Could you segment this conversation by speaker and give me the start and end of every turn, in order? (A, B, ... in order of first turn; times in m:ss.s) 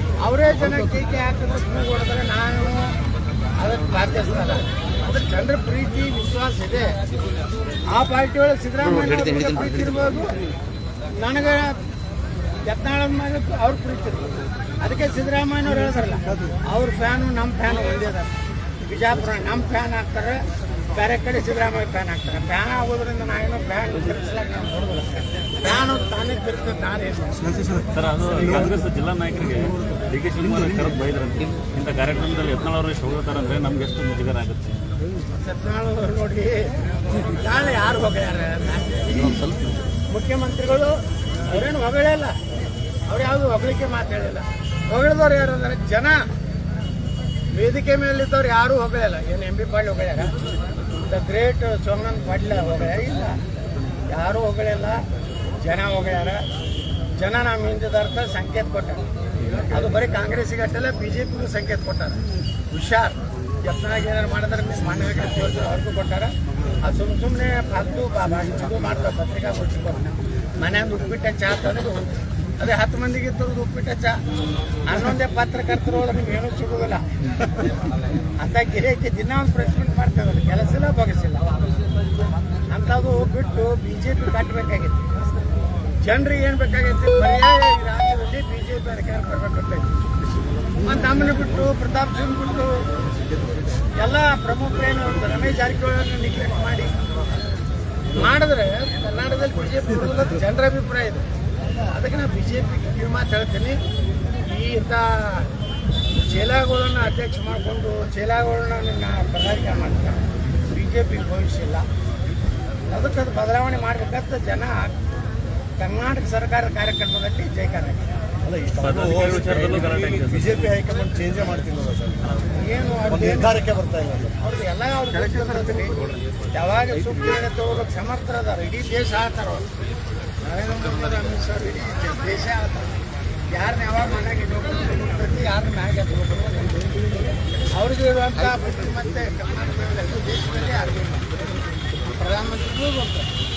0:00.2-0:03.0 A
0:03.6-0:07.0 A
0:07.9-0:10.4 A
0:11.1-0:11.8 A
0:12.6-0:14.3 A
0:14.8-0:27.5 A
0:27.9-0:34.9 B
0:35.4-0:39.5 A
0:40.1-0:42.4 A
0:43.1-0:46.2 A
0:47.5-0:50.3 A
0:51.0-0:53.4 A
0:54.1-0:55.0 A
0:55.6-0:56.4 A
0:57.2-0:59.0 A
0:59.7-1:14.2 A
1:14.8-1:17.1 A
1:18.4-1:21.4 A
1:22.7-1:25.1 A
1:26.0-1:29.9 A
1:30.8-1:32.8 A
1:33.9-1:36.9 A
1:38.1-1:43.8 A
1:44.4-1:45.5 A
1:46.1-1:51.9 A
1:52.9-1:54.9 A
1:55.8-1:58.1 A
1:58.4-2:04.4 C
1:58.8-2:00.7 B
2:02.5-2:03.6 A
2:04.4-2:09.6 A
2:10.4-2:13.0 A
2:13.5-2:23.3 A